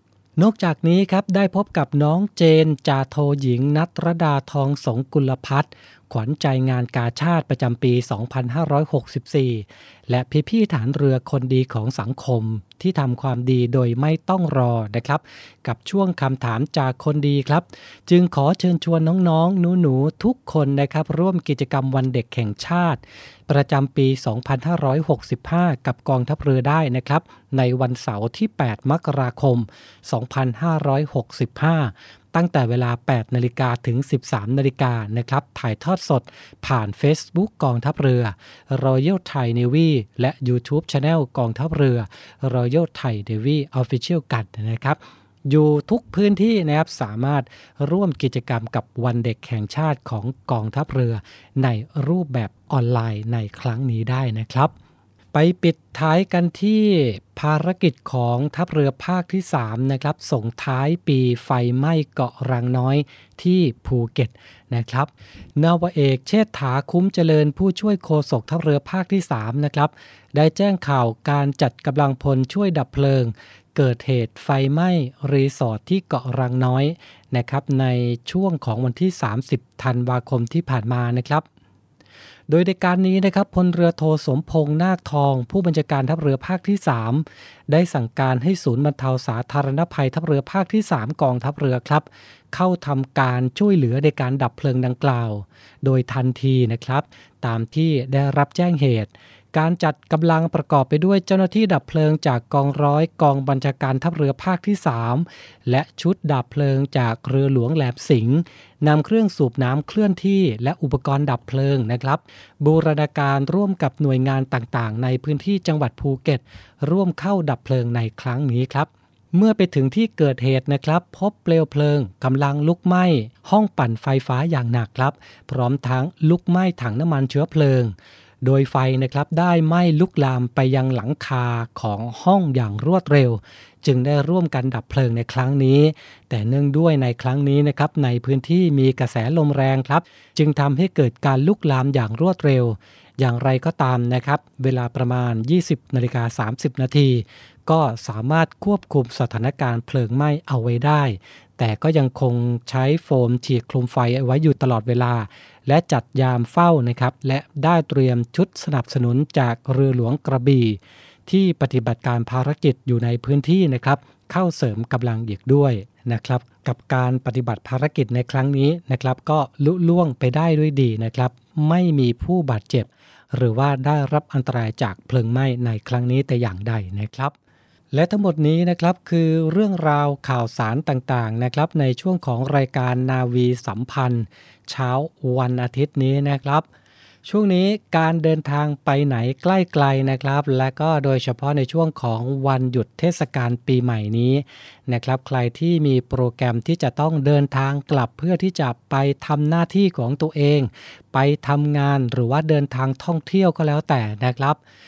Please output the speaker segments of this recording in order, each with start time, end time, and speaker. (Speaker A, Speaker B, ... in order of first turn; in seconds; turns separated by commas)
Speaker A: 0.4-54.7, Speaker A: 55.3-81.5, Speaker A: 82.5-177.3, Speaker A: 177.9-186.7, Speaker A: 187.2-204.6